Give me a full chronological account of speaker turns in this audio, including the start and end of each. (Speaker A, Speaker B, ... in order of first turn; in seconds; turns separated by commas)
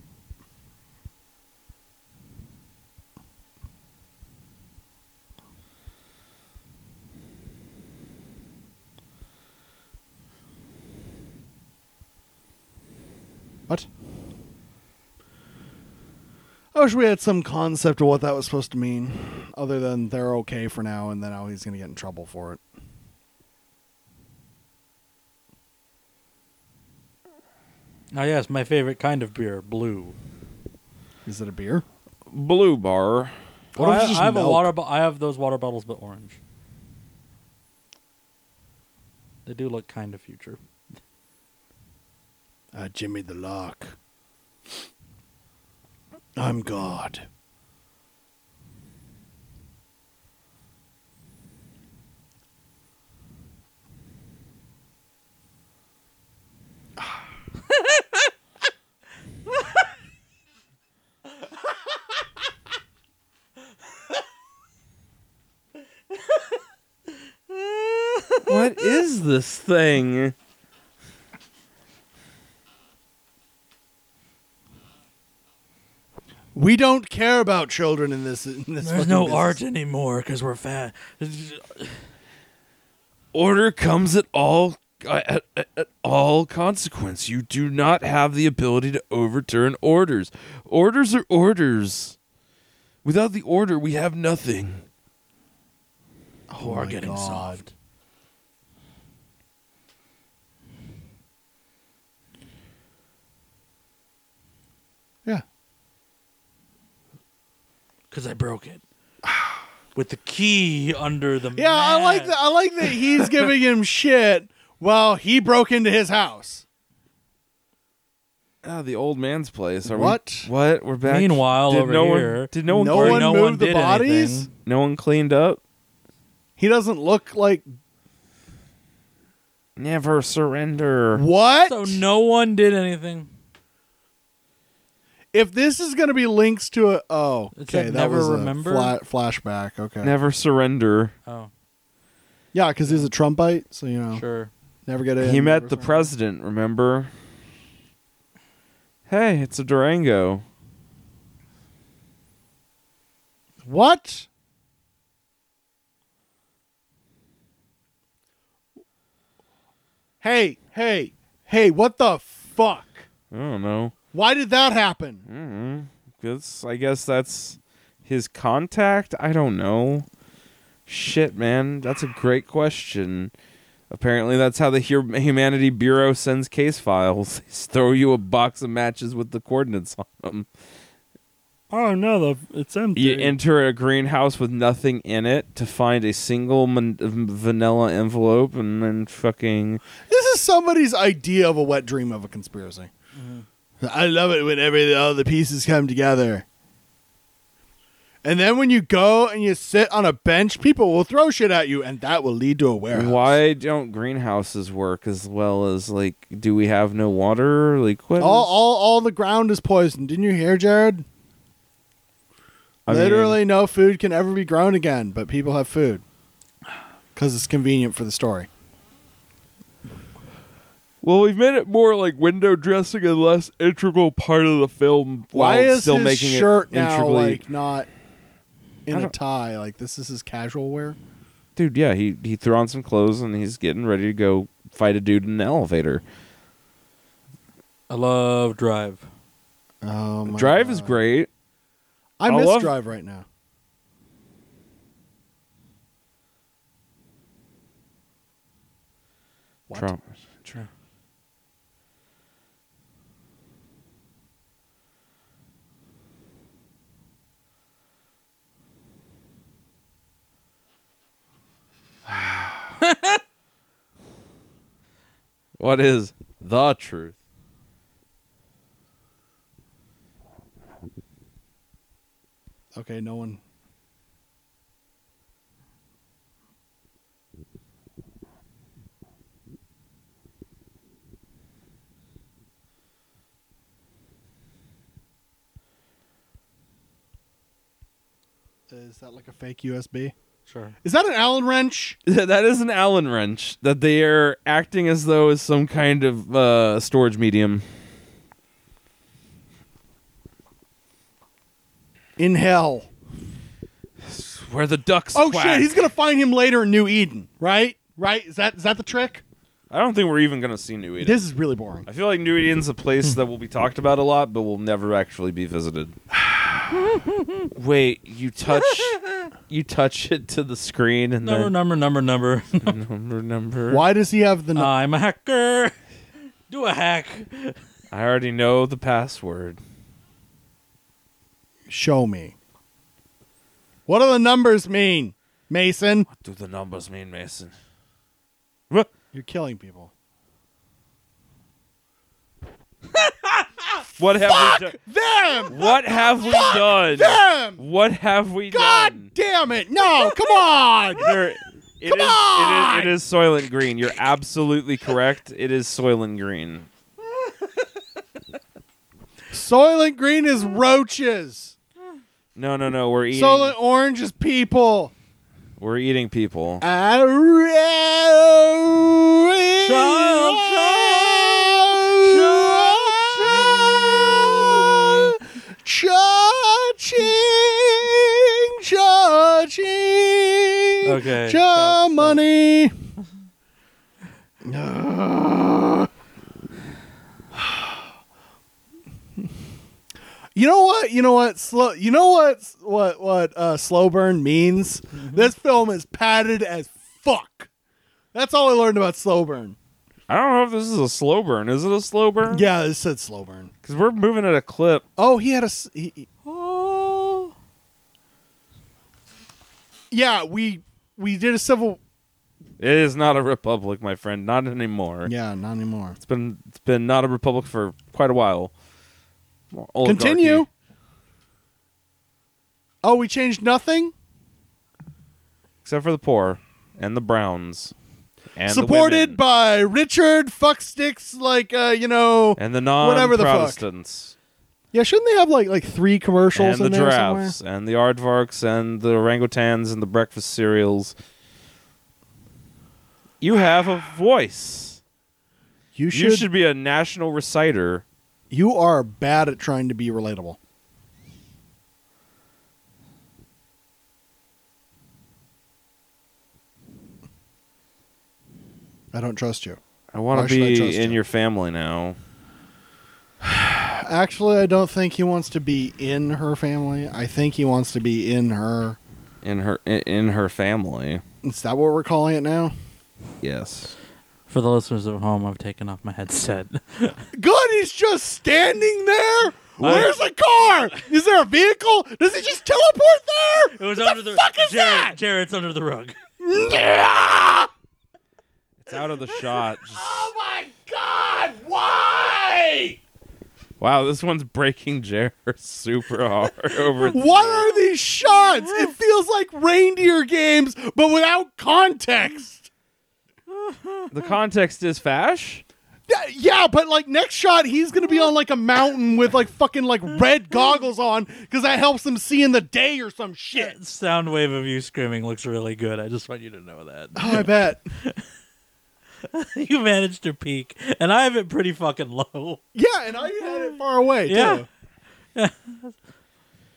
Speaker A: 16.7-22.6, Speaker B: 28.1-30.2, Speaker A: 31.3-31.9, Speaker C: 32.3-33.3, Speaker A: 33.8-34.7, Speaker B: 33.8-36.4, Speaker B: 39.5-40.6, Speaker A: 42.7-44.0, Speaker A: 46.4-47.3, Speaker B: 57.7-58.0, Speaker B: 67.5-68.8, Speaker C: 68.5-70.3, Speaker A: 76.5-79.6, Speaker B: 78.8-82.0, Speaker C: 83.3-92.2, Speaker C: 93.0-94.8, Speaker A: 96.5-97.6, Speaker B: 96.6-97.7, Speaker B: 108.1-108.8, Speaker A: 109.2-109.6, Speaker B: 110.0-113.0, Speaker A: 111.6-116.7, Speaker C: 118.6-123.3, Speaker A: 119.9-120.5, Speaker B: 121.0-124.5, Speaker A: 122.7-124.5, Speaker C: 124.6-125.6, Speaker A: 126.6-127.7, Speaker C: 129.8-131.2, Speaker A: 131.1-132.0, Speaker B: 131.7-133.3, Speaker A: 135.3-140.1, Speaker B: 137.6-138.9, Speaker C: 140.0-141.1, Speaker B: 141.3-141.5, Speaker A: 142.5-144.2, Speaker B: 144.1-144.5, Speaker A: 144.9-146.1, Speaker C: 145.2-147.1, Speaker C: 149.1-150.4, Speaker A: 153.6-154.3, Speaker A: 160.2-163.1, Speaker C: 163.3-163.9, Speaker A: 164.1-165.2, Speaker C: 165.3-170.1, Speaker C: 170.9-173.3, Speaker C: 173.9-180.5, Speaker B: 181.7-183.3, Speaker C: 183.0-189.8, Speaker A: 190.1-192.9, Speaker B: 193.2-193.4, Speaker A: 193.8-196.4, Speaker A: 198.2-203.4, Speaker C: 202.9-208.5, Speaker A: 208.2-211.1, Speaker C: 212.9-213.4, Speaker A: 212.9-216.0, Speaker A: 217.2-218.5, Speaker C: 221.0-227.4, Speaker A: 225.3-227.9, Speaker A: 228.9-231.0, Speaker C: 231.6-236.0, Speaker B: 237.9-239.1, Speaker A: 239.8-241.0, Speaker C: 240.3-241.3, Speaker A: 242.2-243.3, Speaker C: 242.3-242.7, Speaker C: 249.7-250.6, Speaker B: 262.8-263.2, Speaker C: 265.6-267.1, Speaker A: 272.7-273.4, Speaker A: 288.7-290.1, Speaker B: 290.5-290.7, Speaker A: 290.8-292.0, Speaker C: 292.1-297.6, Speaker A: 302.2-302.9, Speaker C: 304.1-305.7, Speaker A: 305.1-309.2, Speaker C: 309.7-311.2, Speaker A: 311.0-311.9, Speaker C: 311.9-316.0, Speaker B: 316.9-317.5, Speaker C: 317.6-321.5, Speaker B: 318.8-319.2, Speaker B: 321.2-322.7, Speaker C: 322.6-323.8, Speaker A: 323.7-324.7, Speaker B: 324.6-325.8, Speaker B: 326.5-327.6, Speaker C: 327.9-329.6, Speaker A: 331.7-332.4, Speaker A: 333.9-336.1, Speaker C: 336.1-337.5, Speaker A: 339.1-339.9, Speaker B: 342.9-343.6, Speaker C: 344.0-344.8, Speaker A: 344.2-347.6, Speaker C: 345.5-349.1, Speaker A: 348.5-351.2, Speaker C: 351.0-356.7, Speaker A: 351.9-352.9, Speaker A: 359.3-361.6, Speaker C: 362.4-363.6, Speaker A: 363.1-364.9, Speaker C: 365.6-366.6, Speaker A: 366.6-382.7, Speaker B: 369.6-375.1, Speaker B: 380.8-382.2, Speaker A: 384.4-385.9, Speaker A: 387.3-387.9, Speaker A: 390.4-397.5, Speaker A: 398.1-399.6, Speaker C: 400.1-402.5, Speaker A: 402.3-403.5, Speaker C: 403.6-404.8, Speaker A: 405.0-406.3, Speaker B: 406.3-407.3, Speaker A: 409.9-411.8, Speaker C: 412.6-415.1, Speaker A: 415.1-416.0, Speaker C: 416.0-418.5, Speaker C: 419.5-420.5, Speaker A: 419.8-420.5, Speaker A: 422.8-423.9, Speaker C: 425.6-427.7, Speaker C: 428.4-429.2, Speaker A: 428.5-433.6, Speaker C: 432.4-434.1, Speaker A: 434.7-437.4, Speaker C: 436.3-440.9, Speaker C: 443.2-444.8, Speaker A: 445.8-446.3, Speaker C: 445.9-447.8, Speaker A: 448.3-450.4, Speaker A: 458.9-459.6, Speaker C: 459.9-462.0, Speaker A: 460.1-461.0, Speaker A: 463.2-468.8, Speaker C: 469.2-471.0, Speaker A: 471.2-472.5, Speaker C: 473.2-473.8, Speaker B: 474.3-477.0, Speaker A: 477.1-485.0, Speaker B: 479.6-479.9, Speaker B: 483.6-486.0, Speaker A: 486.2-487.5, Speaker C: 488.6-490.1, Speaker A: 489.7-492.8, Speaker C: 493.6-497.4, Speaker A: 496.9-502.5, Speaker B: 498.4-498.7, Speaker B: 503.3-504.0, Speaker C: 503.9-505.4, Speaker A: 505.9-513.6, Speaker B: 513.3-518.0, Speaker A: 517.0-517.6, Speaker B: 519.1-522.4, Speaker A: 522.5-524.5, Speaker B: 523.2-523.6, Speaker B: 524.1-524.5, Speaker B: 525.1-525.8